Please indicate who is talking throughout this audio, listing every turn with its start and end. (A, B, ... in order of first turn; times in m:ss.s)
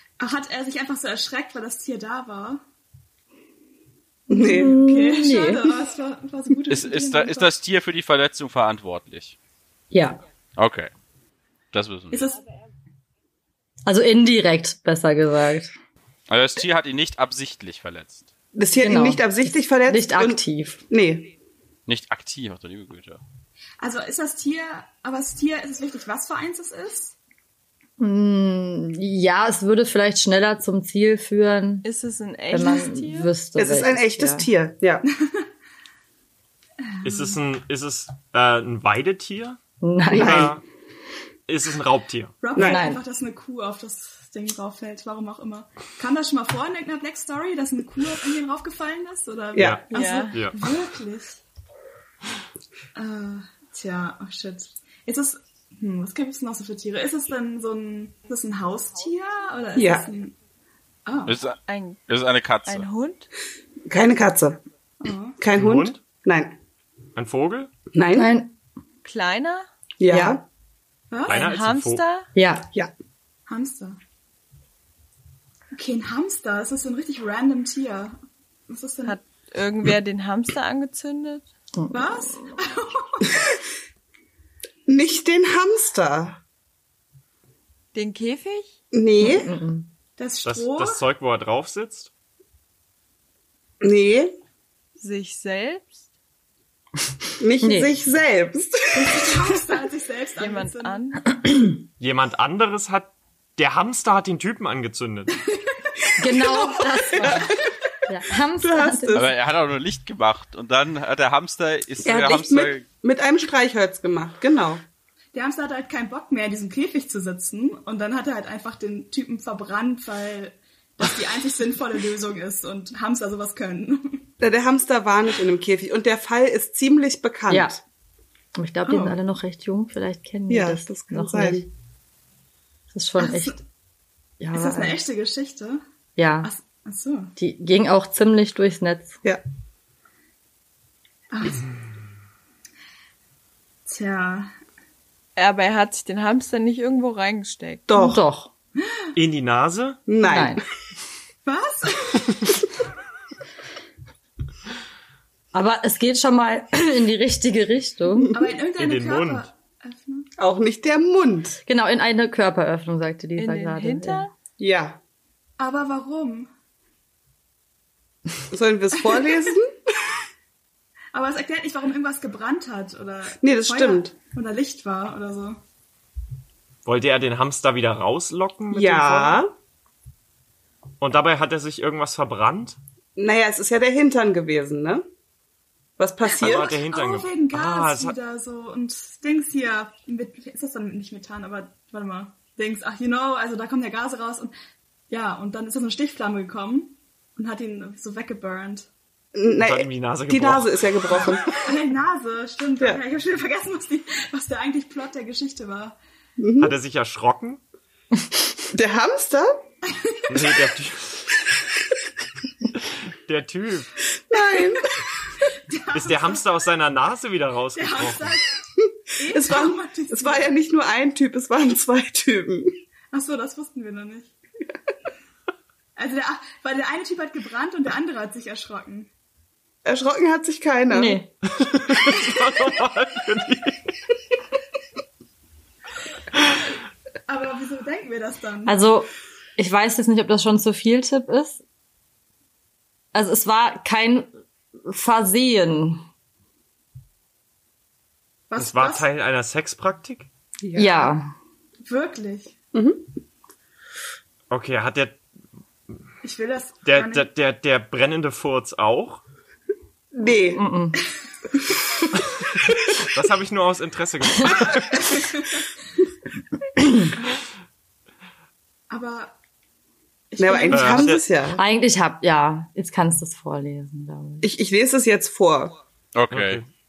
0:00.2-0:02.6 A
0:04.3-0:04.8 B
0:04.3-0:05.7 C
0:04.4-0:07.5 A
0:06.7-0:09.4 D
0:09.9-0:10.2 C
0:10.6-0:10.9 D
0:11.7-0:12.2 D
0:12.1-0:12.4 A
0:13.8-0:15.7 C
0:16.3-0:18.3 D
0:18.5-0:21.3 B
0:18.8-0:20.8 C
0:21.9-0:23.2 D
0:23.8-0:27.2 A
0:28.0-0:31.8 C
0:31.8-0:33.3 E
0:32.5-0:34.4 C
0:33.6-0:35.0 B
0:35.1-0:35.4 A
0:36.9-0:37.4 A
0:37.0-0:39.6 F
0:39.8-0:40.5 C
0:40.1-0:40.5 B
0:40.1-0:40.6 F
0:41.5-0:42.4 F
0:42.4-0:51.4 A
0:42.5-0:42.8 B
0:42.6-0:43.0 C
0:49.5-0:49.8 B
0:49.6-0:50.6 F
0:49.9-0:50.4 E
0:52.9-1:00.3 A
0:59.7-1:00.1 B
1:01.0-1:01.4 A
1:01.3-1:02.8 D
1:01.6-1:02.1 E
1:02.6-1:03.3 E
1:03.9-1:04.6 B
1:05.0-1:05.4 A
1:05.4-1:06.6 B
1:05.5-1:06.0 F
1:07.2-1:07.7 F
1:07.9-1:08.3 B
1:08.1-1:08.5 C
1:09.0-1:09.6 E
1:10.0-1:10.4 B
1:10.1-1:10.4 C
1:11.1-1:11.5 A
1:11.3-1:12.0 F
1:11.3-1:12.3 E
1:12.3-1:12.7 C
1:13.5-1:14.0 A
1:15.7-1:19.2 A
1:19.0-1:21.5 E
1:21.9-1:23.4 A
1:24.9-1:26.4 B
1:27.9-1:28.8 E
1:28.9-1:29.6 B
1:29.2-1:29.9 C
1:30.2-1:31.0 A
1:30.4-1:32.1 F
1:33.8-1:34.3 B
1:35.0-1:36.0 E
1:37.4-1:39.5 B
1:37.6-1:37.9 C
1:38.9-1:41.0 A
1:40.4-1:41.3 E
1:42.0-1:45.4 F
1:45.5-1:47.5 A
1:46.2-1:49.2 C
1:47.2-1:47.5 B
1:48.6-1:49.3 B
1:49.1-1:52.8 D
1:52.0-1:54.8 B
1:55.3-2:04.2 A
2:04.4-2:07.8 B
2:07.5-2:07.8 C
2:08.5-2:11.6 C
2:08.8-2:09.2 A
2:10.5-2:11.7 B
2:12.9-2:13.6 C
2:13.2-2:13.6 A
2:14.4-2:15.0 C
2:14.5-2:15.8 A
2:16.2-2:16.5 C
2:16.4-2:17.3 A
2:17.4-2:19.2 C
2:21.3-2:21.7 A
2:23.8-2:24.5 A
2:25.4-2:27.9 E
2:27.9-2:28.2 B
2:27.9-2:28.5 C
2:29.1-2:30.0 F
2:30.1-2:30.6 B
2:30.2-2:30.6 C
2:31.4-2:32.4 A
2:35.5-2:38.3 C
2:38.3-2:40.3 A
2:38.8-2:39.5 F
2:40.4-2:41.6 B
2:41.6-2:44.2 C
2:43.4-2:44.3 E
2:44.6-2:45.0 B
2:45.6-2:46.5 A
2:48.5-2:49.8 B
2:49.0-2:49.5 A
2:51.1-2:55.6 A
2:53.4-2:54.1 B
2:56.8-2:59.4 F
2:58.7-2:59.5 B
3:01.0-3:02.8 F
3:03.2-3:05.0 B
3:06.0-3:06.7 B
3:06.4-3:08.2 F
3:06.4-3:14.5 A
3:15.1-3:18.9 A
3:19.3-3:21.6 B
3:19.6-3:20.9 F
3:21.5-3:26.0 A
3:26.4-3:26.7 B
3:26.6-3:27.6 F
3:28.7-3:29.6 B
3:29.8-3:30.5 A
3:30.3-3:31.3 F
3:32.8-3:34.0 F
3:34.3-3:34.9 B
3:34.6-3:34.8 A
3:35.4-3:36.5 A
3:35.9-3:38.4 F
3:37.7-3:38.6 A
3:39.1-3:40.5 A
3:39.2-3:42.7 B
3:43.1-3:44.3 A
3:46.0-3:49.1 A
3:49.8-3:51.2 B
3:50.9-3:51.3 C
3:51.5-3:53.9 F
3:57.3-3:58.8 A
3:58.7-4:01.6 C
4:03.1-4:04.3 C
4:04.8-4:06.0 C
4:08.5-4:09.1 A
4:08.6-4:10.3 F
4:10.6-4:11.1 B
4:10.8-4:11.3 C
4:11.8-4:12.6 A
4:12.7-4:13.1 B
4:14.5-4:15.2 F
4:16.2-4:17.3 A
4:16.8-4:19.2 F
4:20.1-4:20.7 B
4:20.5-4:21.0 C
4:23.0-4:25.2 F
4:25.0-4:25.6 A
4:28.9-4:29.4 A
4:30.3-4:31.2 A
4:30.4-4:31.6 B
4:30.7-4:31.2 F
4:31.5-4:34.5 C
4:34.4-4:35.8 B
4:36.1-4:36.6 D
4:36.3-4:36.7 F